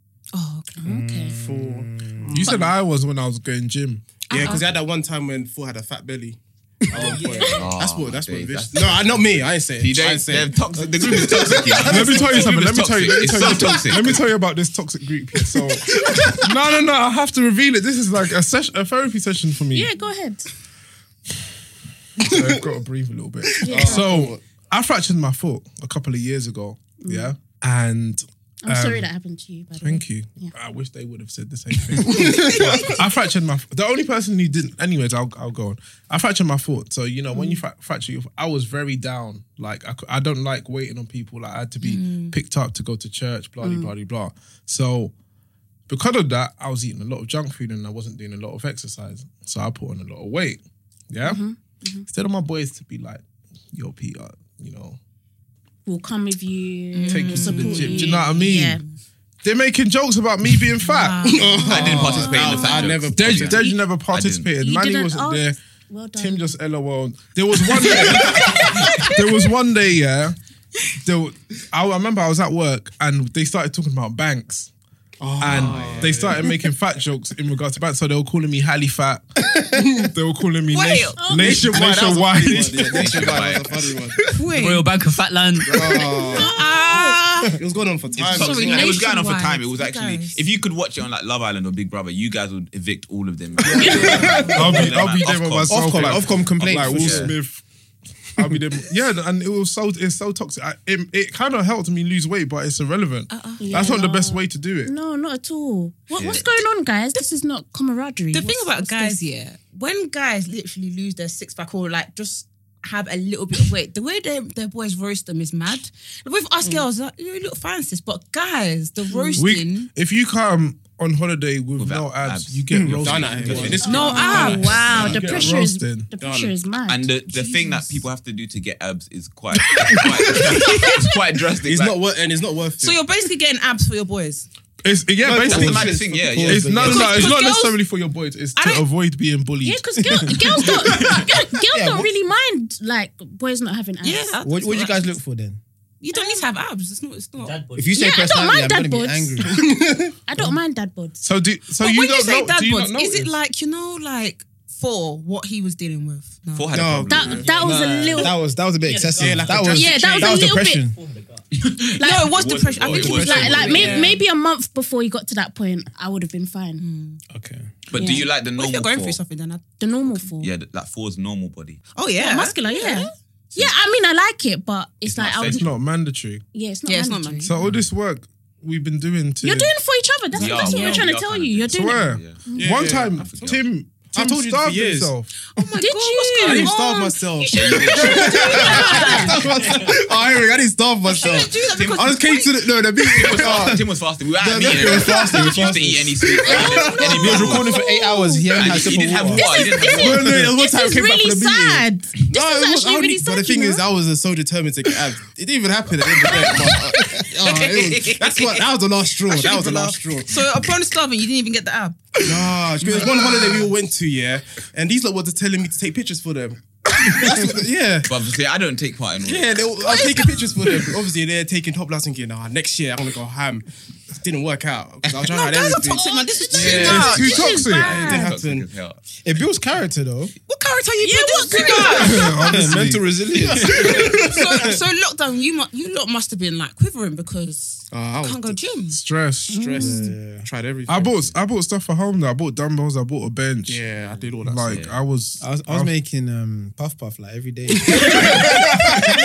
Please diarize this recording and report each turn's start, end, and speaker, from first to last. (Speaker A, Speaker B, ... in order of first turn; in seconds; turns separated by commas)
Speaker A: 0.3-0.8, Speaker B: 0.8-1.3, Speaker C: 0.8-2.3, Speaker D: 1.3-2.7, Speaker E: 2.3-4.0, Speaker A: 4.3-4.7, Speaker D: 4.3-13.8, Speaker F: 6.9-7.7, Speaker G: 7.6-14.2, Speaker E: 11.8-19.9, Speaker B: 19.7-20.5, Speaker E: 22.2-29.1, Speaker D: 22.3-22.6, Speaker B: 23.6-24.1, Speaker D: 23.6-24.4, Speaker B: 27.0-27.3, Speaker B: 28.6-30.5, Speaker E: 29.8-45.1, Speaker D: 32.0-32.7, Speaker B: 37.3-37.6, Speaker A: 41.8-42.4, Speaker B: 43.6-43.9, Speaker E: 45.9-51.4, Speaker B: 51.2-52.0, Speaker E: 52.1-55.0, Speaker B: 55.9-58.8, Speaker A: 56.9-58.8, Speaker E: 57.1-58.8, Speaker D: 57.2-57.8, Speaker E: 59.4-61.4, Speaker A: 60.8-62.8, Speaker D: 61.2-63.6, Speaker G: 61.7-64.5, Speaker B: 61.8-63.0, Speaker E: 63.2-65.6, Speaker B: 64.6-66.4, Speaker E: 66.1-70.4, Speaker A: 68.1-69.1, Speaker E: 71.0-74.7, Speaker D: 75.2-76.6, Speaker E: 75.4-79.4, Speaker G: 75.5-76.0, Speaker E: 80.0-83.2, Speaker A: 80.7-81.7, Speaker B: 81.2-81.8, Speaker D: 81.3-84.2, Speaker G: 82.5-83.9, Speaker A: 84.3-84.9, Speaker F: 84.5-86.0, Speaker D: 85.7-86.6, Speaker A: 86.0-87.5, Speaker B: 86.9-87.1, Speaker D: 87.5-89.0, Speaker G: 88.2-97.3, Speaker A: 88.2-90.4, Speaker D: 93.7-94.5, Speaker E: 93.7-97.6, Speaker A: 94.2-94.8, Speaker C: 95.7-97.4, Speaker E: 98.3-104.9, Speaker A: 103.3-103.9, Speaker B: 103.6-109.2, Speaker G: 106.2-106.4, Speaker A: 106.2-106.6, Speaker A: 108.3-119.9, Speaker B: 119.1-119.5, Speaker E: 119.4-126.1, Speaker G: 121.8-123.8, Speaker D: 122.7-125.6, Speaker B: 123.8-127.1, Speaker A: 123.8-124.7, Speaker G: 124.6-125.4, Speaker D: 126.2-126.6, Speaker G: 126.9-132.1, Speaker A: 127.3-128.0, Speaker E: 129.8-130.3, Speaker A: 130.6-131.1, Speaker D: 131.6-133.0, Speaker A: 132.8-134.5, Speaker E: 134.8-141.2, Speaker D: 135.3-136.4, Speaker C: 135.3-137.3, Speaker G: 135.4-137.3, Speaker A: 136.8-137.8, Speaker A: 138.6-138.8, Speaker B: 139.6-144.4, Speaker C: 140.9-142.1, Speaker A: 144.0-145.2, Speaker C: 144.4-145.6, Speaker A: 146.0-148.3, Speaker B: 146.1-146.5, Speaker F: 147.4-148.0, Speaker C: 147.8-149.8, Speaker B: 148.0-149.6, Speaker D: 149.5-150.1, Speaker B: 150.3-151.2, Speaker E: 151.2-153.3, Speaker A: 151.8-156.9, Speaker G: 156.5-157.7, Speaker D: 156.7-157.9, Speaker B: 157.1-158.4, Speaker F: 157.4-157.9, Speaker C: 157.7-161.0, Speaker F: 158.8-161.5, Speaker D: 159.2-160.3, Speaker B: 159.8-160.9, Speaker B: 162.0-166.8, Speaker A: 162.0-164.2, Speaker G: 162.3-164.0, Speaker F: 163.0-164.2, Speaker A: 166.8-167.2, Speaker C: 167.3-167.7, Speaker G: 167.9-169.2, Speaker B: 167.9-168.3, Speaker A: 168.5-169.8, Speaker B: 169.8-170.5, Speaker G: 170.4-171.8, Speaker A: 172.0-173.1, Speaker B: 172.2-175.7, Speaker G: 175.0-175.6, Speaker E: 175.5-176.4, Speaker B: 176.5-177.6, Speaker A: 176.9-177.5, Speaker E: 177.4-179.7, Speaker B: 179.4-182.9, Speaker G: 180.3-182.5, Speaker A: 180.5-181.1, Speaker E: 181.7-185.3, Speaker D: 182.6-183.3, Speaker G: 183.0-183.6, Speaker D: 184.1-185.1, Speaker A: 185.5-189.4, Speaker B: 185.8-186.8, Speaker D: 186.4-193.8, Speaker G: 187.5-189.1, Speaker A: 191.1-192.5, Speaker G: 191.7-192.5, Speaker G: 193.1-197.8, Speaker C: 193.4-193.8, Speaker C: 194.4-200.4, Speaker D: 194.4-197.5, Speaker B: 196.5-203.8, Speaker A: 196.5-197.2, Speaker G: 198.5-200.3, Speaker D: 199.9-210.4, Speaker E: 200.0-200.5, Speaker G: 207.6-208.6, Speaker A: 209.3-212.2, Speaker D: 212.2-218.2, Speaker G: 218.1-220.2, Speaker D: 219.2-228.7, Speaker A: 219.9-220.3, Speaker G: 225.1-225.3, Speaker A: 225.3-227.8, Speaker G: 226.6-229.0, Speaker E: 226.8-227.9, Speaker B: 227.2-228.3, Speaker C: 229.2-230.3, Speaker A: 230.5-232.4, Speaker B: 231.0-232.5, Speaker E: 231.9-233.1, Speaker C: 232.4-234.8, Speaker A: 233.7-239.0, Speaker D: 233.9-234.2, Speaker D: 237.9-238.6, Speaker E: 238.9-239.6, Speaker D: 239.5-241.3, Speaker B: 239.6-240.1, Speaker C: 239.8-240.5, Speaker E: 240.9-243.8, Speaker D: 243.7-244.8, Speaker E: 244.4-245.9, Speaker G: 244.7-245.0, Speaker C: 245.4-248.4, Speaker D: 247.7-248.8